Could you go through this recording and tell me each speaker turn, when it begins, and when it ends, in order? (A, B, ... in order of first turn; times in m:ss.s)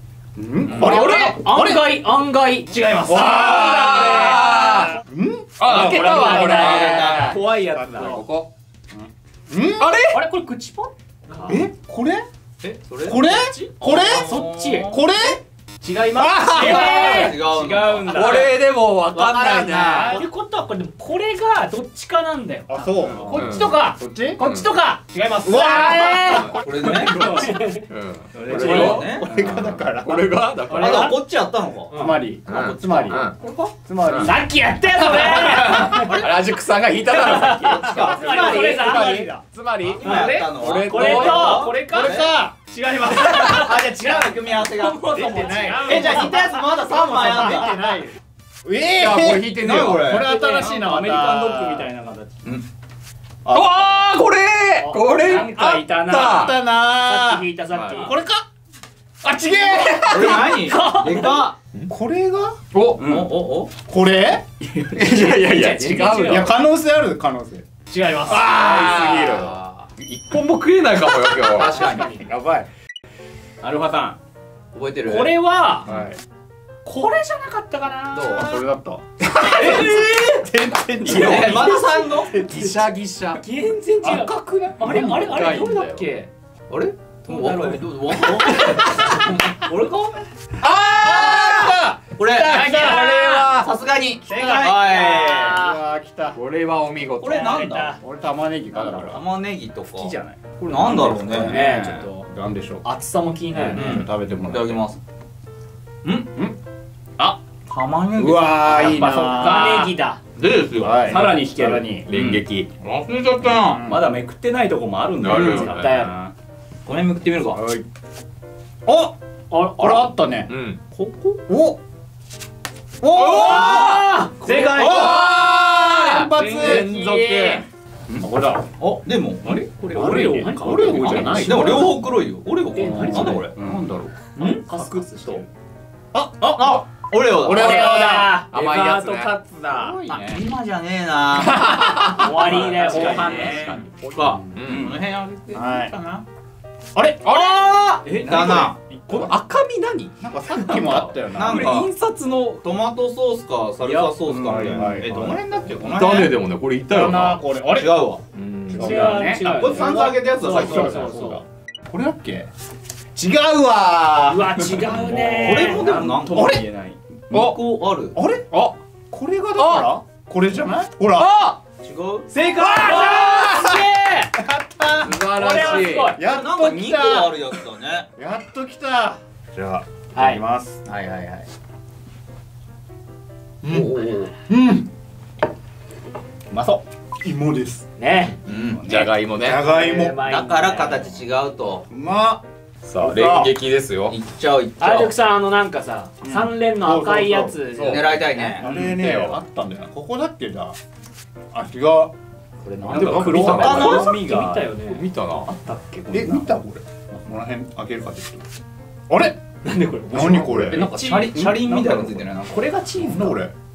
0:00.4-0:01.9 A
0:00.6-0:01.0 B
0:00.7-0:01.4 C
0:00.7-0:04.9 D
0:03.1-0:05.0 C
0:03.4-0:04.1 A
0:05.0-0:08.2 A
0:05.6-0:07.4 C
0:05.6-0:07.4 D
0:06.4-0:07.4 B
0:06.8-0:08.2 E
0:08.0-0:08.5 C
0:08.9-0:10.0 A
0:09.8-0:10.2 C
0:10.1-0:11.7 D
0:11.5-0:12.2 A
0:12.6-0:15.4 B
0:13.0-0:15.4 A
0:14.2-0:15.0 D
0:15.8-0:17.5 D
0:16.2-0:16.8 A
0:16.2-0:17.3 C
0:16.5-0:18.5 B
0:16.7-0:18.6 E
0:18.0-0:20.2 C
0:19.1-0:20.2 B
0:19.7-0:20.2 A
0:20.1-0:27.8 D
0:22.7-0:24.4 A
0:23.0-0:23.3 E
0:23.3-0:23.9 C
0:24.4-0:24.7 C
0:25.4-0:27.1 B
0:25.5-0:26.2 A
0:26.3-0:31.2 C
0:27.0-0:27.6 E
0:28.3-0:29.6 E
0:28.4-0:29.3 B
0:28.6-0:29.0 D
0:29.0-0:30.4 A
0:30.7-0:31.2 D
0:30.7-0:32.0 B
0:31.9-0:32.2 D
0:31.9-0:33.2 A
0:32.5-0:33.4 C
0:32.5-0:33.7 B
0:33.8-0:34.5 A
0:34.0-0:34.4 C
0:34.2-0:36.2 D
0:35.3-0:36.5 B
0:35.3-0:41.7 C
0:37.0-0:39.3 D
0:37.5-0:39.0 B
0:37.9-0:39.4 A
0:39.9-0:42.3 B
0:40.0-0:42.2 D
0:40.0-0:40.5 E
0:41.5-0:42.1 E
0:41.7-0:42.5 A
0:42.7-0:46.3 E
0:43.1-0:45.1 B
0:44.8-0:46.5 D
0:45.1-0:51.9 A
0:45.8-0:47.7 B
0:47.5-0:47.7 D
0:49.0-0:50.2 C
0:49.6-0:50.3 B
0:50.3-0:50.7 D
0:50.3-0:52.5 E
0:53.4-0:53.8 B
0:53.5-0:56.6 C
0:54.8-0:55.5 D
0:55.1-0:56.6 E
0:55.3-0:58.4 A
0:56.7-0:58.2 D
0:57.7-0:58.1 C
0:59.2-1:00.7 A
1:00.0-1:01.6 B
1:00.4-1:01.5 D
1:01.9-1:02.6 A
1:02.7-1:03.1 C
1:03.0-1:03.4 E
1:03.0-1:03.7 B
1:03.8-1:04.4 A
1:04.6-1:06.1 E
1:04.9-1:06.5 C
1:05.1-1:06.5 D
1:06.2-1:07.6 A
1:07.9-1:09.0 D
1:08.3-1:11.8 C
1:08.3-1:09.5 A
1:08.6-1:09.9 B
1:11.4-1:12.2 B
1:11.6-1:12.2 D
1:11.9-1:12.7 A
1:13.6-1:14.2 E
1:14.7-1:15.4 B
1:15.0-1:15.9 D
1:15.8-1:16.2 A
1:16.8-1:18.5 D
1:18.1-1:18.4 B
1:18.2-1:21.9 A
1:19.4-1:20.2 D
1:19.4-1:22.0 E
1:19.6-1:19.9 B
1:21.0-1:22.4 B
1:21.1-1:26.1 C
1:21.4-1:22.7 D
1:23.3-1:26.3 D
1:24.8-1:26.1 E
1:26.7-1:30.1 B
1:27.2-1:28.2 E
1:28.8-1:29.2 D
1:29.7-1:30.1 E
1:30.6-1:32.9 A
1:30.8-1:31.7 C
1:31.1-1:35.6 B
1:32.5-1:33.7 C
1:32.5-1:33.5 D
1:34.2-1:35.8 D
1:35.5-1:36.4 A
1:36.3-1:37.5 C
1:37.2-1:38.0 B
1:37.2-1:38.0 D
1:38.0-1:39.2 A
1:38.7-1:42.0 B
1:39.9-1:40.4 E
1:40.7-1:42.8 A
1:41.3-1:42.3 D
1:42.8-1:44.0 D
1:43.5-1:44.8 A
1:43.7-1:45.0 B
1:46.0-1:46.3 B
1:47.6-1:51.3 B
1:48.1-1:49.9 A
1:48.7-1:49.9 E
1:49.3-1:50.2 D
1:50.8-1:52.1 A
1:51.0-1:52.0 E
1:52.0-1:52.7 C
1:52.1-1:53.8 B
1:53.6-1:54.1 A
1:53.8-1:56.3 E
1:55.2-1:56.1 C
1:55.3-1:56.1 D
1:56.8-1:57.6 B
1:57.5-1:57.8 A
1:58.8-1:59.1 A
1:59.5-2:00.0 D
1:59.8-2:00.5 A
2:00.5-2:00.8 C
2:00.9-2:01.4 B
2:01.5-2:01.8 A
2:03.0-2:03.9 A
2:03.1-2:04.2 C
2:03.2-2:05.1 D
2:04.4-2:05.2 B
2:04.5-2:05.1 E
2:04.7-2:07.6 C
2:04.7-2:06.9 A
2:06.3-2:07.3 E
2:06.9-2:07.6 D
2:08.1-2:08.6 A
2:08.8-2:10.3 B
2:09.4-2:11.9 E
2:10.0-2:11.8 D
2:10.0-2:12.0 A
2:11.3-2:13.8 B
2:12.7-2:13.4 D
2:12.8-2:14.2 A
2:14.4-2:14.6 B
2:14.4-2:15.5 D
2:14.5-2:15.5 E
2:16.1-2:16.8 A
2:16.4-2:18.0 B
2:17.4-2:18.4 A
2:17.5-2:18.5 D
2:18.5-2:19.4 C
2:18.5-2:20.0 E
2:19.7-2:20.5 A
2:20.1-2:26.2 B
2:21.4-2:22.3 A
2:21.5-2:24.9 C
2:22.0-2:23.6 D
2:22.5-2:23.8 E
2:22.9-2:23.5 A
2:24.2-2:24.6 A
2:24.7-2:24.9 E
2:25.5-2:25.9 A
2:26.9-2:27.2 A
2:27.2-2:28.8 B
2:27.2-2:27.7 C
2:28.0-2:28.7 E
2:28.3-2:29.4 A
2:29.1-2:31.0 C
2:30.2-2:31.8 A
2:31.0-2:32.6 E
2:31.3-2:31.9 B
2:32.6-2:36.4 B
2:33.8-2:34.9 E
2:34.3-2:35.4 A
2:35.8-2:37.4 C
2:36.9-2:38.0 A
2:37.7-2:38.2 B
2:38.3-2:39.1 C
2:38.7-2:42.5 A
2:38.7-2:41.4 D
2:38.7-2:39.5 E
2:39.4-2:41.3 B
2:43.1-2:45.3 A
2:44.2-2:45.8 D
2:44.8-2:47.0 E
2:45.4-2:46.6 B
2:46.3-2:46.6 A
2:47.3-2:48.2 B
2:47.3-2:47.6 C
2:48.1-2:48.5 A
2:48.5-2:48.8 C
2:49.1-2:51.3 A
2:49.6-2:49.9 C
2:51.1-2:51.6 C
2:51.8-2:52.3 B
2:52.3-2:54.4 D
2:52.4-2:53.2 E
2:52.6-2:53.8 A
2:54.3-2:57.6 A
2:55.0-2:56.2 C
2:55.3-2:56.2 D
2:56.2-2:58.1 B
2:58.2-3:00.8 A
3:00.1-3:00.4 D
3:00.8-3:01.5 B
3:03.6-3:03.9 A
3:03.6-3:04.3 C
3:04.5-3:04.9 A
3:06.5-3:06.8 E
3:07.2-3:07.8 A
3:08.0-3:08.4 D
3:08.5-3:09.0 B
3:08.7-3:09.1 E
3:08.9-3:09.7 C
3:09.4-3:10.2 A
3:09.5-3:11.2 D
3:10.1-3:11.9 B
3:11.9-3:12.4 A
3:12.8-3:14.2 C
3:13.0-3:13.5 A
3:14.1-3:15.1 B
3:14.8-3:18.6 D
3:16.2-3:17.6 A
3:17.7-3:18.2 C
3:17.9-3:18.7 B
3:18.4-3:20.8 A
3:18.6-3:18.9 E
3:18.8-3:19.4 C
3:21.5-3:22.1 A
3:22.6-3:24.1 B
3:22.8-3:23.9 A
3:22.9-3:24.7 E
3:22.9-3:24.1 C
3:23.6-3:25.0 D
3:24.8-3:25.5 C
3:25.3-3:26.6 E
3:26.1-3:28.5 A
3:29.1-3:29.4 A
3:29.6-3:31.5 D
3:30.1-3:32.0 A
3:30.7-3:32.8 B
3:31.6-3:32.2 E
3:32.5-3:33.4 D
3:32.9-3:33.5 A